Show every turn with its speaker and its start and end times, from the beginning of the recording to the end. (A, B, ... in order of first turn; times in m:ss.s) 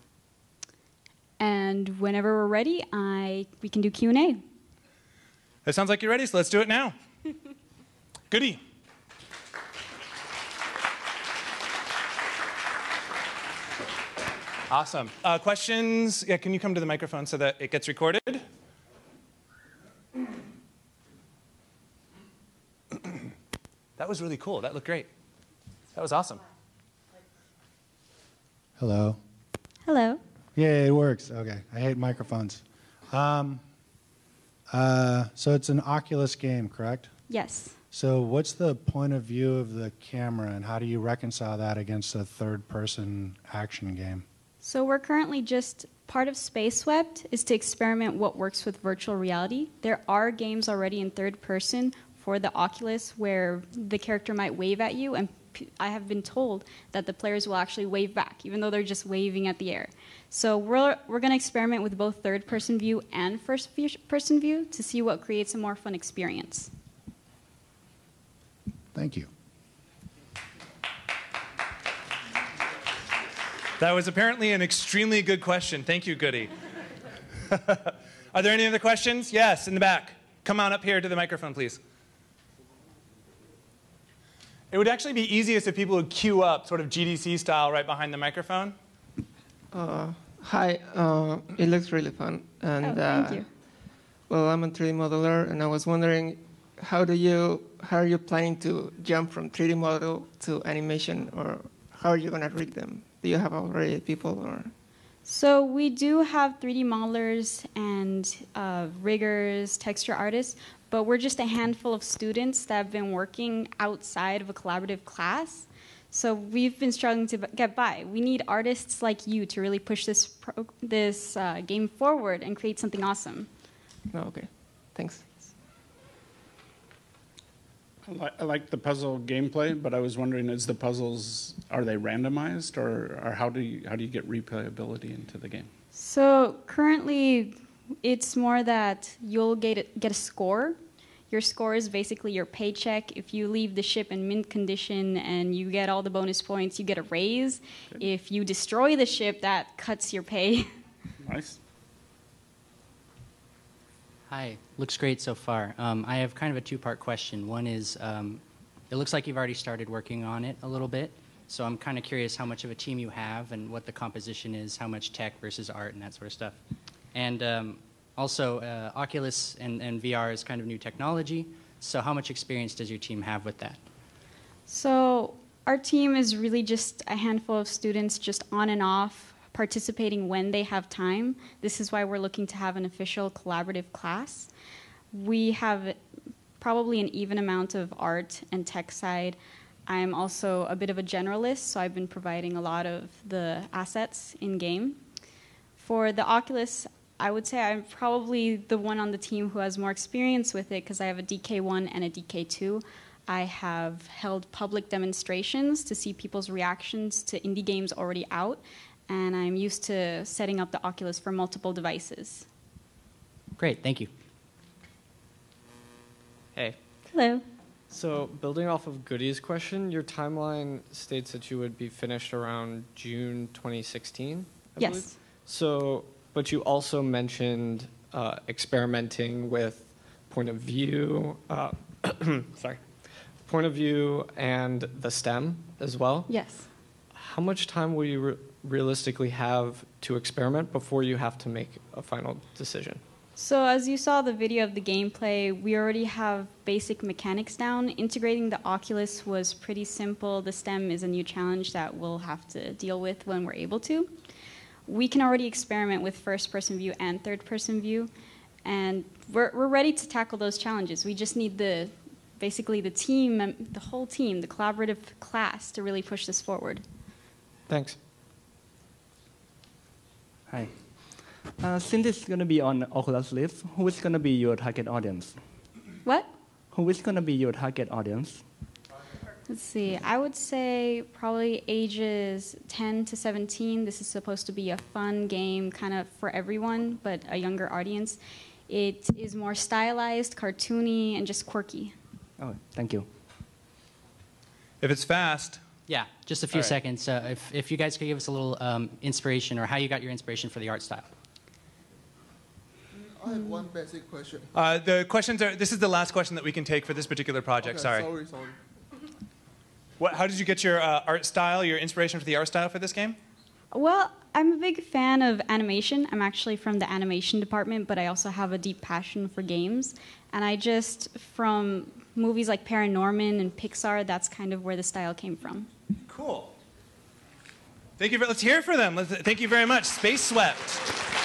0:01.4-0:04.4 A
0:05.6-0:07.0 B
0:08.3-0:08.6 B
0:14.7-0:18.4 B
0:24.0-0:25.1 B
0:26.0-0:26.4 B
0:28.8-0:29.2 C
0:29.9-0:30.2 A
0:30.6-0:33.6 C
0:34.7-0:37.1 C
0:37.3-0:37.8 A
0:37.9-0:44.2 C
0:44.6-1:06.7 A
1:08.9-1:09.3 C
1:13.8-1:16.5 B
1:17.5-1:21.8 B
1:24.7-1:28.8 B
1:29.7-1:33.5 D
1:32.8-1:33.5 A
1:34.3-1:44.7 D
1:45.2-2:03.5 A
2:04.1-2:05.2 D
2:08.1-2:15.7 E
2:15.9-2:20.8 A
2:21.3-2:30.7 A
2:31.2-2:31.6 E
2:34.3-2:46.6 F
2:47.1-2:53.8 F
2:54.7-3:04.5 A
3:05.1-3:06.0 A
3:06.6-3:15.0 A
3:15.8-3:32.5 A
3:33.6-3:34.1 F
3:37.1-3:37.4 A
3:37.9-3:52.8 G
3:44.8-3:45.2 A
3:53.4-3:56.3 G
3:56.3-3:56.7 A
3:57.1-4:03.0 G
4:03.4-4:14.1 A
4:14.9-4:18.1 A
4:18.6-4:26.8 A
4:27.7-4:28.0 G
4:30.5-4:35.4 H
4:36.0-4:36.3 A
4:36.7-4:38.4 H
4:39.5-4:51.9 A
4:52.4-4:53.1 H
4:54.8-4:55.6 B
4:55.9-5:01.1 F
5:03.2-5:04.5 I
5:03.3-5:03.7 A
5:04.5-5:08.1 B
5:07.7-5:08.6 I
5:10.0-5:13.2 B
5:13.7-5:25.7 A
5:26.0-5:26.6 B
5:28.0-5:30.9 B